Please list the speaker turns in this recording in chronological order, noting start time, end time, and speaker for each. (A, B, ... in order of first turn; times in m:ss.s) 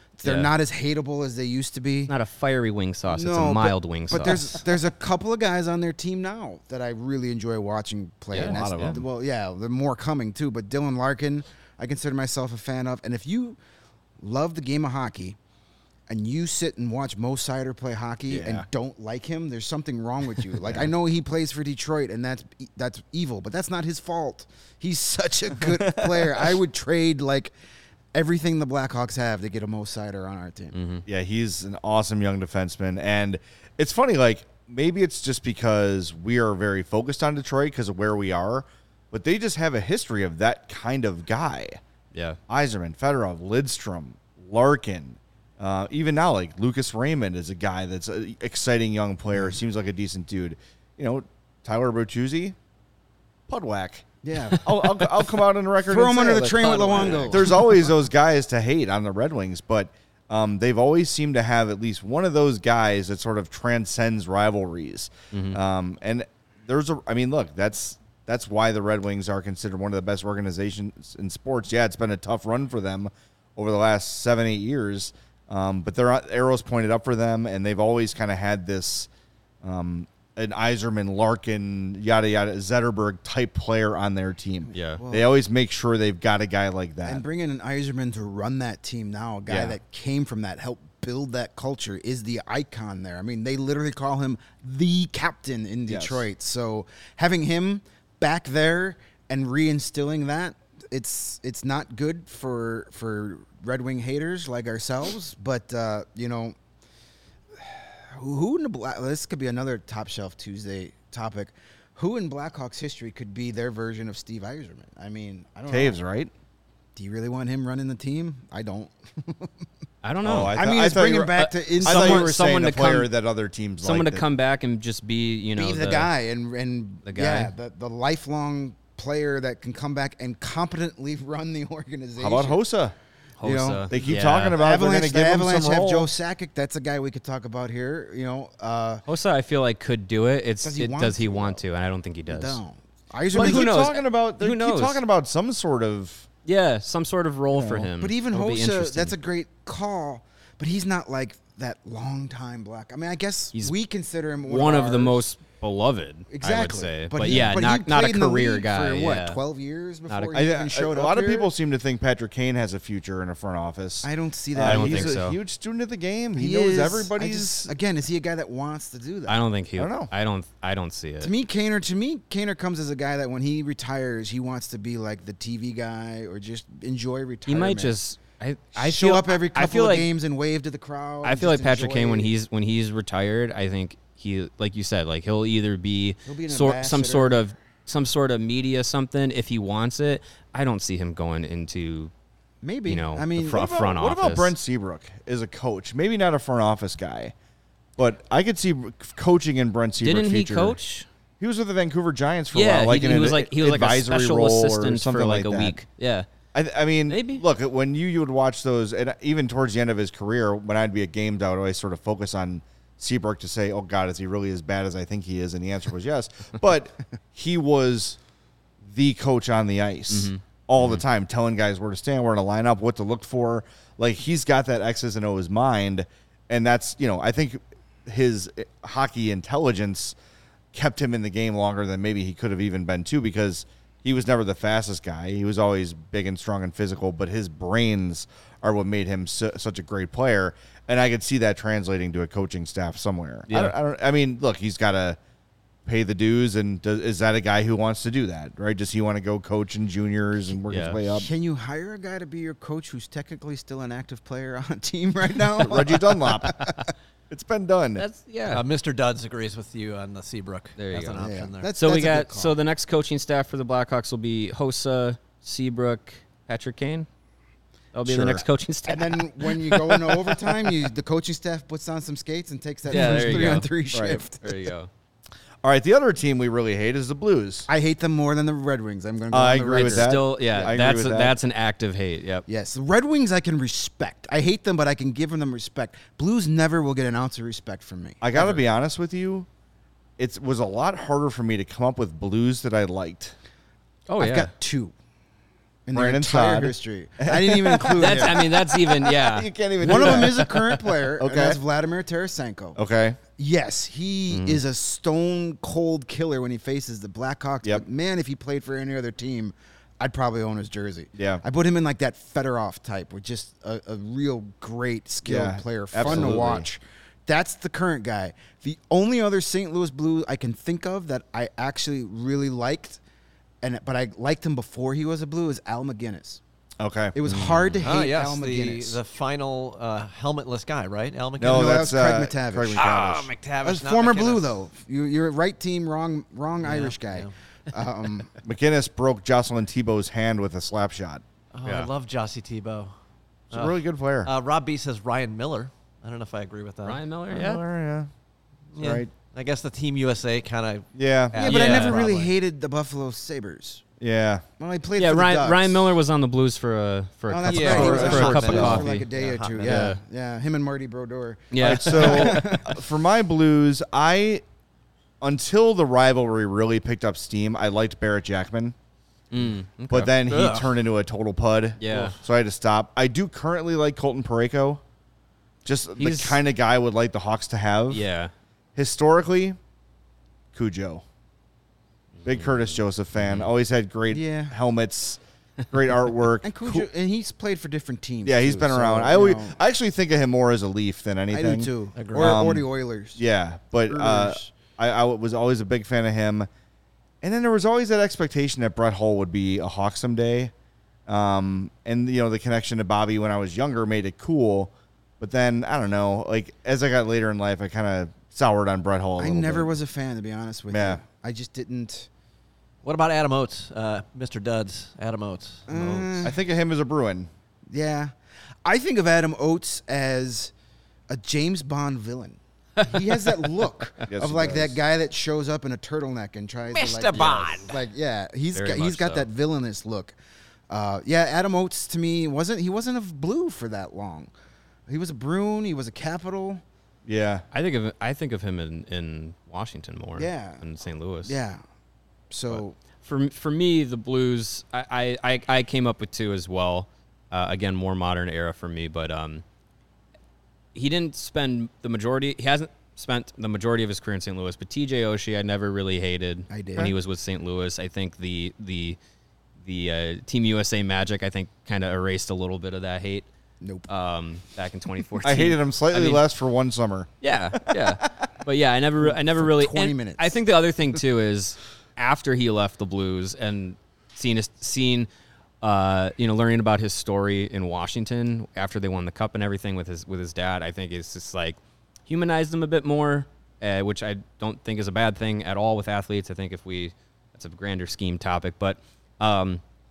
0:00.2-0:02.1 A
0:00.2-0:00.5 B
0:02.1-0:04.6 B
0:03.1-0:13.6 A
0:08.3-0:09.0 B
0:08.3-0:09.1 C
0:14.2-0:15.4 A
0:16.1-0:27.5 A
0:18.3-0:18.7 C
0:20.6-0:20.9 C
0:25.6-0:26.6 C
0:28.1-0:30.7 A
0:30.7-0:31.0 B
0:31.1-0:41.8 C
0:42.1-0:42.4 B
0:42.5-0:52.6 C
0:53.5-1:19.1 C
0:54.2-0:54.9 A
0:55.8-0:57.6 A
0:56.3-0:57.7 B
1:05.3-1:05.6 B
1:19.6-1:27.2 C
1:24.7-1:25.0 B
1:25.0-1:25.3 A
1:27.0-1:46.6 A
1:29.5-1:29.8 C
1:35.9-1:36.2 C
1:47.6-1:56.0 A
1:55.7-1:56.3 C
1:57.0-1:59.5 A
2:00.0-2:00.6 B
2:00.2-2:04.2 C
2:00.5-2:02.3 A
2:01.8-2:03.1 B
2:03.8-2:06.1 B
2:05.6-2:12.6 A
2:07.0-2:07.5 B
2:12.2-2:13.0 C
2:13.4-2:14.6 B
2:13.4-2:19.0 A
2:13.9-2:16.1 C
2:19.1-2:22.6 B
2:20.6-2:21.6 A
2:22.3-2:24.0 A
2:23.3-2:26.3 C
2:23.3-2:25.0 B
2:26.4-2:29.2 B
2:27.5-2:35.2 A
2:34.5-2:39.4 B
2:36.3-2:41.5 A
2:37.2-2:37.5 C
2:40.1-2:40.4 B
2:40.3-2:47.7 C
2:44.0-2:45.2 A
2:44.6-2:45.4 B
2:46.3-2:49.4 A
2:49.3-2:51.3 B
2:49.8-2:50.1 C
2:51.2-2:58.0 A
2:57.5-3:00.1 B
2:58.8-3:02.3 A
3:01.2-3:12.1 B
3:06.3-3:07.4 A
3:12.6-3:13.6 A
3:12.9-3:14.5 B
3:13.4-3:17.3 C
3:18.0-3:20.8 C
3:20.0-3:21.1 B
3:21.4-3:25.8 C
3:22.5-3:26.3 B
3:26.5-3:38.2 C
3:27.1-3:27.4 B
3:38.8-3:50.2 C
3:40.1-3:41.0 B
3:50.7-4:05.2 C
4:03.5-4:03.7 B
4:05.9-4:11.3 C
4:10.7-4:11.0 B
4:11.1-4:16.9 A
4:15.6-4:16.8 C
4:17.3-4:18.0 C
4:18.0-4:18.6 B
4:18.4-4:21.7 D
4:20.8-4:27.1 B
4:21.2-4:22.6 A
4:27.9-4:30.6 B
4:28.0-4:28.4 C
4:28.9-4:34.6 A
4:32.9-4:33.7 B
4:32.9-4:34.2 C
4:34.4-4:34.9 B
4:35.6-4:37.7 C
4:37.7-4:40.7 A
4:39.3-4:41.4 C
4:39.7-4:42.5 B
4:42.5-4:48.6 A
4:48.2-4:49.5 C
4:50.2-4:53.4 C
4:54.1-4:54.5 B
4:54.2-4:54.9 A
4:55.9-4:58.4 A
4:55.9-5:01.6 C
4:57.9-5:00.3 B
4:59.8-5:02.8 A
5:02.8-5:03.2 C
5:03.3-5:23.0 A
5:04.3-5:04.6 B
5:11.2-5:11.4 C
5:15.2-5:16.7 C
5:23.6-5:26.4 A
5:26.8-5:27.2 C
5:27.1-5:29.0 A
5:27.2-5:27.8 B
5:27.8-5:31.9 D
5:31.4-5:33.3 C
5:31.4-5:33.0 A
5:32.7-5:34.6 D
5:33.6-5:38.3 A
5:36.6-5:37.3 D
5:38.4-5:41.2 C
5:41.5-5:42.9 D
5:43.5-5:47.0 D
5:43.5-5:44.3 C
5:46.8-5:47.6 B
5:47.3-5:48.1 C
5:48.7-5:52.3 D
5:48.8-5:49.1 C
5:51.0-5:52.0 C
5:51.4-5:53.8 A
5:54.0-5:54.4 C
5:54.6-5:55.9 A
5:55.0-6:00.0 B
5:57.3-6:02.7 A
5:57.5-5:59.8 D
5:57.6-5:58.9 C
6:01.5-6:02.6 B
6:01.6-6:04.4 C
6:05.2-6:08.7 C
6:09.3-6:10.2 B
6:09.9-6:14.8 C
6:10.2-6:10.7 D
6:11.8-6:12.2 B
6:15.6-6:18.0 C
6:16.0-6:16.4 B
6:17.9-6:18.3 B
6:18.8-6:19.6 C
6:20.5-6:21.0 C
6:22.2-6:26.9 C
6:23.2-6:23.5 B
6:24.1-6:24.6 A
6:26.4-6:29.6 A
6:28.2-6:36.5 C
6:31.3-6:33.2 A
6:32.0-6:32.4 D
6:33.9-6:34.5 A
6:37.2-6:40.5 C
6:41.1-6:49.7 C
6:49.2-6:52.1 A
6:50.7-6:51.0 C
6:52.8-6:56.3 D
6:55.7-6:56.3 A
6:56.2-6:57.3 C
6:57.7-6:58.1 A
6:58.6-7:00.5 A
7:01.1-7:10.2 A
7:04.1-7:04.8 C
7:06.7-7:07.8 D
7:07.1-7:07.6 B
7:08.5-7:09.3 B
7:10.7-7:14.3 A
7:14.9-7:16.6 A
7:17.1-7:17.4 C
7:17.5-7:21.4 B
7:20.2-7:20.6 A
7:21.2-7:21.6 A
7:22.3-7:22.8 A
7:22.6-7:29.4 B
7:30.8-7:39.0 B
7:36.5-7:36.9 A
7:39.6-7:43.3 B
7:43.6-7:43.9 A
7:43.9-7:46.2 B
7:45.2-7:47.1 C
7:47.2-7:55.1 B
7:49.0-7:50.4 A
7:55.6-8:09.6 B